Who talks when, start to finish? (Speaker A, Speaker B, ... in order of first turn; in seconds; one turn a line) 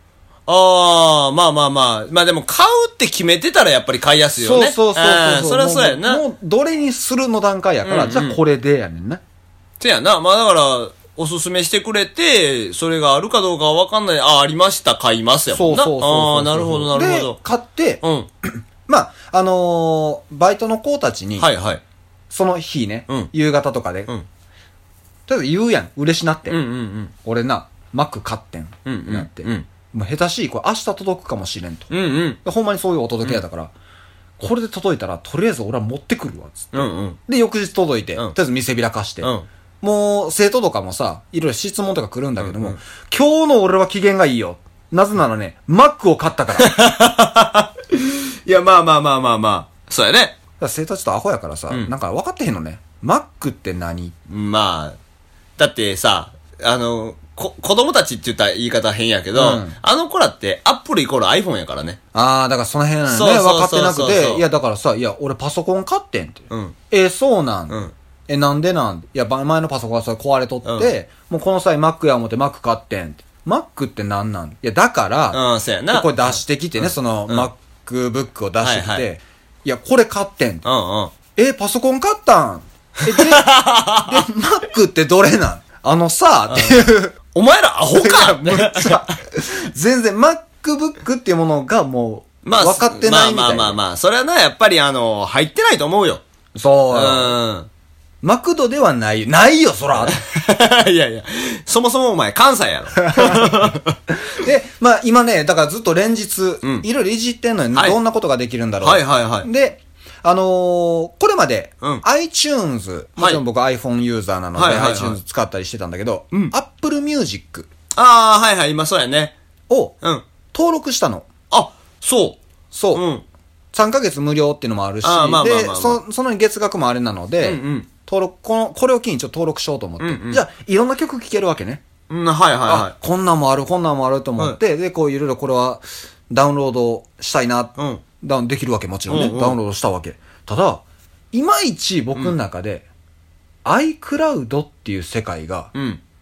Speaker A: 0.5-6.2
Speaker B: 4.4-9.2
Speaker A: 7.8-8.4
Speaker A: 9.8-17.4
Speaker B: 15.5-21.5
Speaker A: 18.0-18.3
Speaker A: 21.4-21.8
Speaker B: 22.3-24.1
Speaker B: 25.3-26.6
Speaker A: 26.5-27.1
Speaker B: 27.2-31.9
Speaker A: 28.9-29.7
Speaker A: 31.9-32.4
Speaker B: 32.4-33.7
Speaker B: 34.4-46.8
Speaker A: 36.7-37.2
Speaker A: 39.2-39.5
Speaker A: 42.4-42.8
Speaker A: 46.6-50.4
Speaker B: 50.6-54.1
Speaker A: 54.3-55.0
Speaker A: 55.6-62.0
Speaker B: 59.3-59.8
Speaker B: 62.1-80.6
Speaker A: 63.1-64.4
Speaker A: 66.5-66.8
Speaker A: 70.6-70.9
Speaker A: 75.3-77.5
Speaker A: 78.6-79.0
Speaker A: 80.6-81.1
Speaker B: 81.3-87.2
Speaker A: 83.1-84.2
Speaker A: 86.5-89.1
Speaker B: 87.9-93.8
Speaker A: 92.4-96.2
Speaker B: 96.5-97.4
Speaker A: 96.9-97.7
Speaker B: 98.2-100.2
Speaker A: 100.1-104.0
Speaker B: 103.0-117.7
Speaker A: 108.8-109.5
Speaker A: 114.5-115.2
Speaker A: 118.0-119.3
Speaker B: 119.7-120.0
Speaker B: 120.5-121.3
Speaker A: 121.5-122.4
Speaker B: 122.7-123.0
Speaker A: 122.9-123.2
Speaker B: 123.7-131.8
Speaker A: 125.0-126.0
Speaker A: 127.4-127.9
Speaker A: 130.0-130.4
Speaker A: 132.1-132.9
Speaker B: 132.7-142.9
Speaker A: 137.8-138.0
Speaker A: 139.1-139.6
Speaker B: 143.6-145.7
Speaker A: 145.7-146.0